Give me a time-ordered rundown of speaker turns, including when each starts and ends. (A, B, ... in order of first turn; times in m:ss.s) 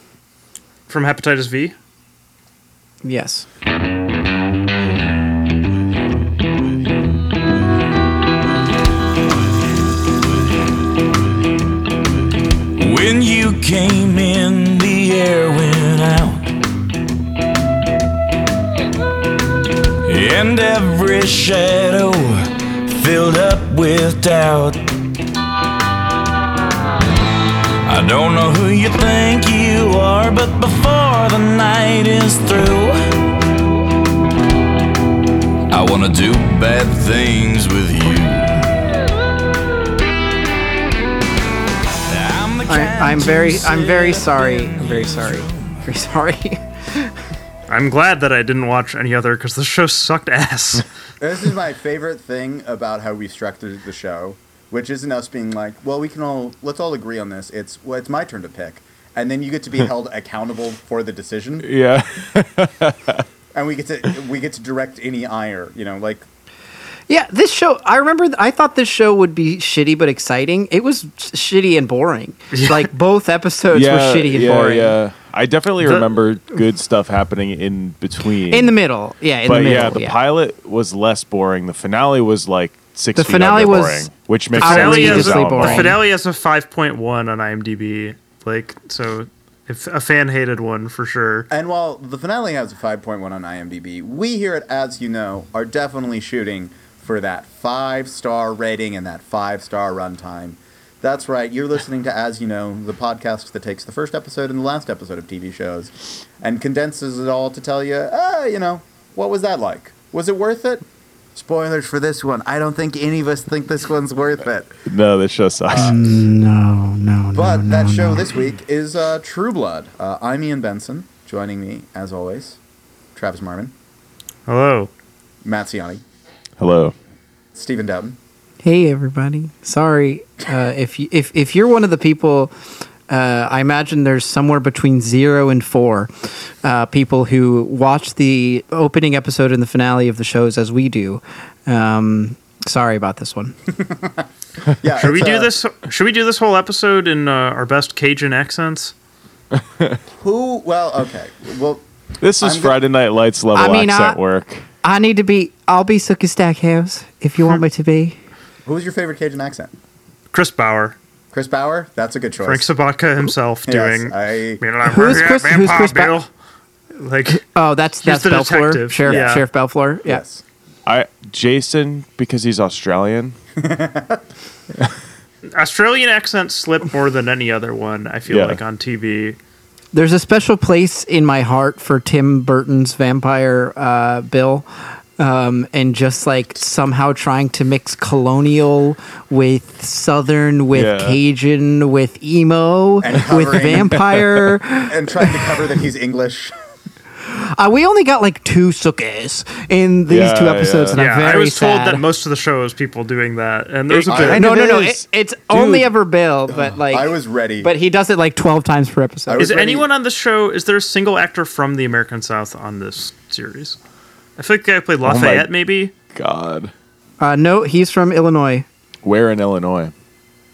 0:00.9-0:01.7 A
0:03.0-0:03.4 B
0:12.8-0:16.5 C
0:20.0-0:24.9 C
0:27.8-0:33.0 C
0:35.7-0:38.6 C
0:42.1-0:45.8 C
0:42.7-0:47.1 B
0:47.7-0:50.8 A
0:51.2-1:01.7 D
1:01.6-1:03.2 E
1:03.5-1:06.2 D
1:07.1-1:15.0 B
1:12.5-1:12.9 A
1:13.7-1:18.7 E
1:15.8-1:16.2 A
1:18.5-1:20.2 B
1:19.4-1:25.9 E
1:23.2-1:26.0 B
1:24.6-1:31.5 A
1:31.5-1:54.7 D
1:54.8-1:56.0 E
1:55.8-1:58.3 B
1:57.3-2:02.6 D
2:03.1-2:03.7 D
2:04.5-2:04.9 A
2:05.4-2:06.0 D
2:06.6-2:06.9 E
2:07.5-2:08.2 D
2:08.6-2:12.5 B
2:13.1-2:16.1 B
2:16.6-2:23.6 B
2:23.8-2:24.2 D
2:24.8-2:25.5 D
2:25.0-2:28.9 A
2:29.6-2:30.0 E
2:30.2-2:31.8 D
2:32.2-2:34.6 E
2:32.4-2:32.8 D
2:33.5-2:34.2 B
2:34.8-2:38.2 B
2:38.6-2:39.7 D
2:40.3-2:41.0 A
2:41.3-2:42.7 D
2:42.4-2:46.3 A
2:43.6-2:44.6 D
2:44.8-2:46.1 B
2:47.0-2:47.4 A
2:47.3-2:50.2 B
2:48.0-2:49.4 A
2:49.0-2:49.4 D
2:50.0-2:50.4 D
2:50.8-2:53.4 E
2:53.6-2:54.2 D
2:55.5-2:59.4 A
2:58.3-2:58.6 E
2:59.9-3:04.6 B
3:05.2-3:15.5 B
3:10.7-3:11.2 E
3:13.0-3:14.0 D
3:13.8-3:14.2 E
3:14.8-3:16.5 D
3:17.2-3:22.0 B
3:20.1-3:21.0 E
3:20.9-3:24.5 A
3:23.9-3:25.9 E
3:24.1-3:24.4 D
3:24.4-3:29.5 B
3:26.5-3:27.7 D
3:29.3-3:29.9 D
3:29.4-3:33.8 A
3:34.4-3:35.9 A
3:35.0-3:35.5 E
3:36.1-3:36.7 E
3:37.2-3:38.6 B
3:39.0-3:39.9 E